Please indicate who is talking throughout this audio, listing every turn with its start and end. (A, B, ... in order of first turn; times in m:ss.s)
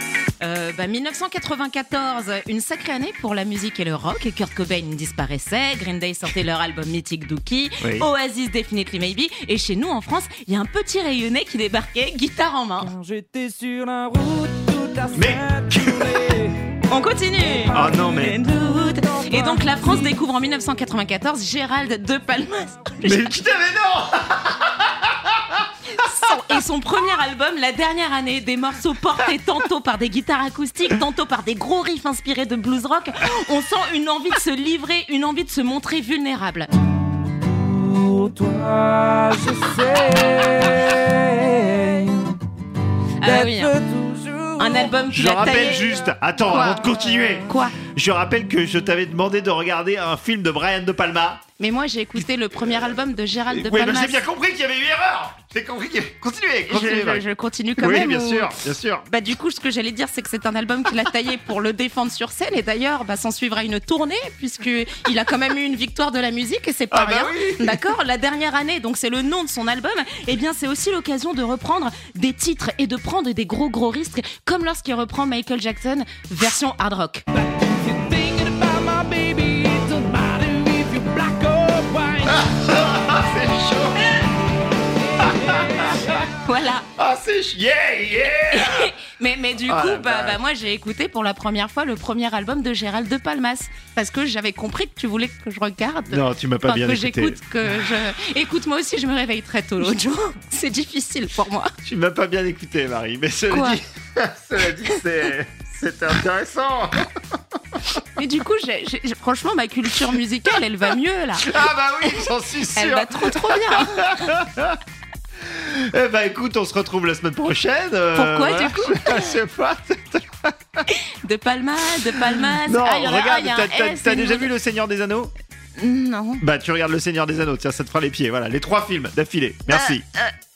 0:00.4-0:13.0 A
0:07.8-0:08.1 B
0:12.9-0:16.6 C
0:15.1-0:16.2 B
0:16.9-0:23.4 A
0:17.7-0:18.4 B
0:19.2-0:19.6 C
0:23.0-0:25.6 B
0:25.9-0:36.7 A
0:37.6-0:42.3 C
0:43.2-0:43.8 A
0:43.2-0:44.8 C
0:44.6-0:45.9 A
0:45.1-0:51.4 B
0:46.5-0:46.8 A
0:47.5-0:47.8 A
0:51.6-0:54.2 A
0:52.6-0:52.9 B
0:53.5-0:57.2 B
0:56.7-0:58.6 A
0:57.8-0:59.0 B
0:59.1-1:17.2 A
1:06.9-1:07.8 B
1:17.4-1:22.4 C
1:22.3-1:24.2 B
1:25.2-1:26.0 C
1:25.2-1:26.1 B
1:26.3-1:26.9 A
1:27.0-1:28.9 B
1:28.5-1:41.7 A
1:29.6-1:30.4 B
1:36.1-1:37.4 B
1:41.8-1:47.1 B
1:43.5-1:43.8 A
1:48.2-1:54.3 A
1:51.4-1:54.8 B
1:55.4-2:00.8 B
1:58.1-1:59.3 A
2:00.9-2:04.5 A
2:02.6-2:05.3 B
2:05.8-2:06.4 A
2:06.4-2:10.0 B
2:09.7-2:10.3 A